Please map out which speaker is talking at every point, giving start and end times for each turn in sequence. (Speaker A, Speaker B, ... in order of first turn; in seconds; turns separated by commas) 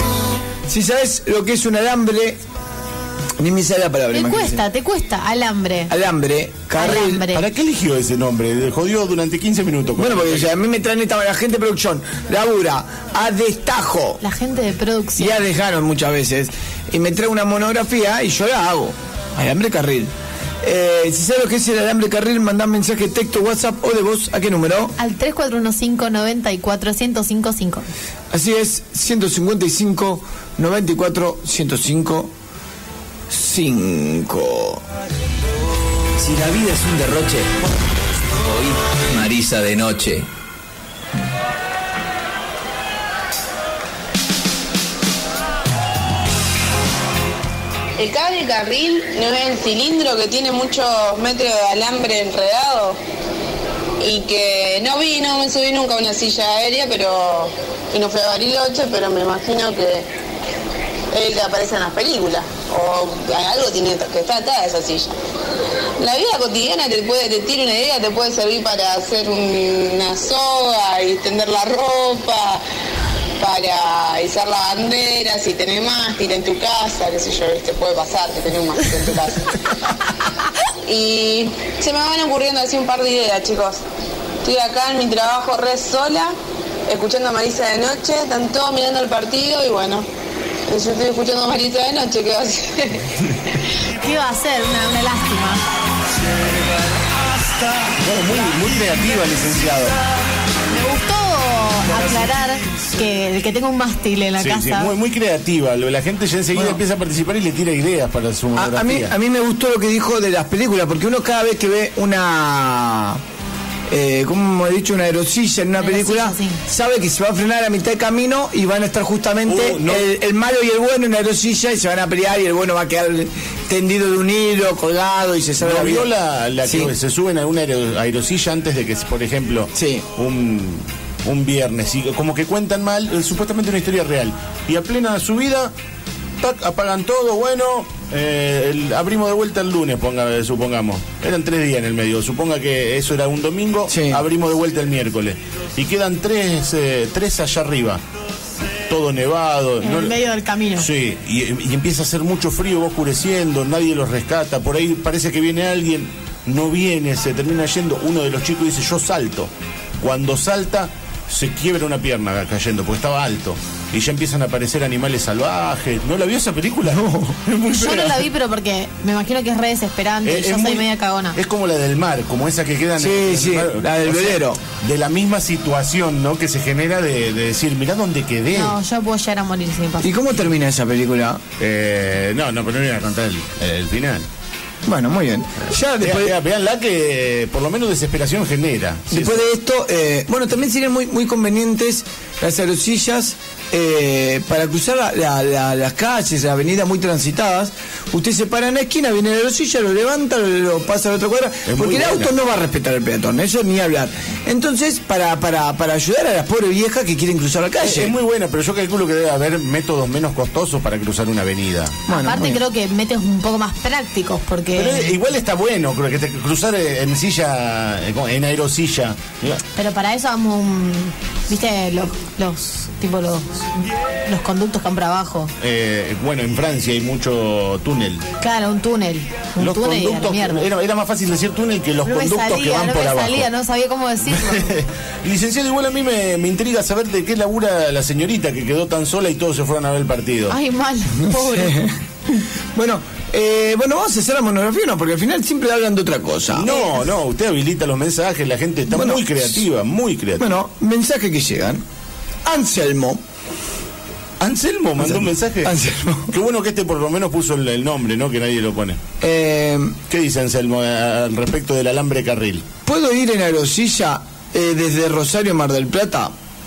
Speaker A: 0.7-2.4, Speaker A: 3.4-4.6, Speaker B: 4.1-5.9, Speaker A: 5.9-7.3, Speaker B: 6.8-7.4, Speaker C: 7.3-10.5, Speaker A: 10.0-14.2, Speaker B: 14.2-15.4, Speaker A: 15.2-20.1, Speaker A: 20.6-24.9, Speaker B: 25.0-27.9, Speaker A: 28.3-32.3, Speaker A: 33.3-34.8, Speaker D: 36.2-37.7, Speaker D: 38.3-40.3, Speaker E: 48.0-53.0, Speaker E: 54.0-60.1, Speaker E: 61.1-65.1, Speaker E: 66.0-72.6, Speaker E: 73.4-79.7, Speaker E: 80.8-83.8, Speaker E: 84.4-86.3, Speaker E: 86.9-90.1, Speaker E: 90.7-93.1, Speaker B: 93.9-95.6, Speaker C: 97.9-100.0, Speaker B: 100.7-104.9, Speaker C: 104.4-109.2, Speaker A: 106.5-106.8, Speaker A: 108.5-113.2, Speaker A: 113.9-126.1, Speaker B: 115.8-116.6, Speaker C: 119.4-120.1, Speaker C: 125.6-135.7, Speaker A: 126.6-126.9, Speaker A: 129.7-130.1, Speaker C: 136.4-148.0, Speaker A: 143.9-144.2, Speaker C: 148.9-150.2, Speaker B: 149.8-150.9, Speaker C: 150.8-168.3, Speaker A: 166.9-167.4, Speaker B: 167.7-171.4, Speaker C: 170.2-178.8, Speaker A: 173.0-174.6, Speaker B: 178.5-180.2, Speaker A: 180.0-181.4, Speaker C: 181.6-184.3, Speaker A: 184.9-186.3, Speaker C: 186.0-189.5, Speaker A: 189.1-208.2, Speaker C: 201.7-202.3, Speaker C: 207.8-212.0, Speaker A: 212.1-212.6, Speaker B: 212.1-215.2, Speaker C: 214.8-219.6, Speaker B: 219.8-223.6, Speaker B: 224.3-225.5, Speaker C: 225.6-228.3, Speaker B: 228.4-230.7, Speaker C: 229.6-233.5, Speaker B: 232.1-234.7, Speaker C: 234.3-240.6, Speaker B: 240.5-241.8, Speaker A: 241.2-246.7, Speaker C: 246.5-250.6, Speaker A: 248.9-249.6, Speaker A: 250.4-251.8, Speaker A: 252.4-253.2, Speaker C: 254.4-255.8, Speaker A: 255.0-256.3, Speaker C: 256.3-259.0, Speaker A: 259.2-260.0, Speaker C: 260.1-262.6, Speaker A: 262.9-266.3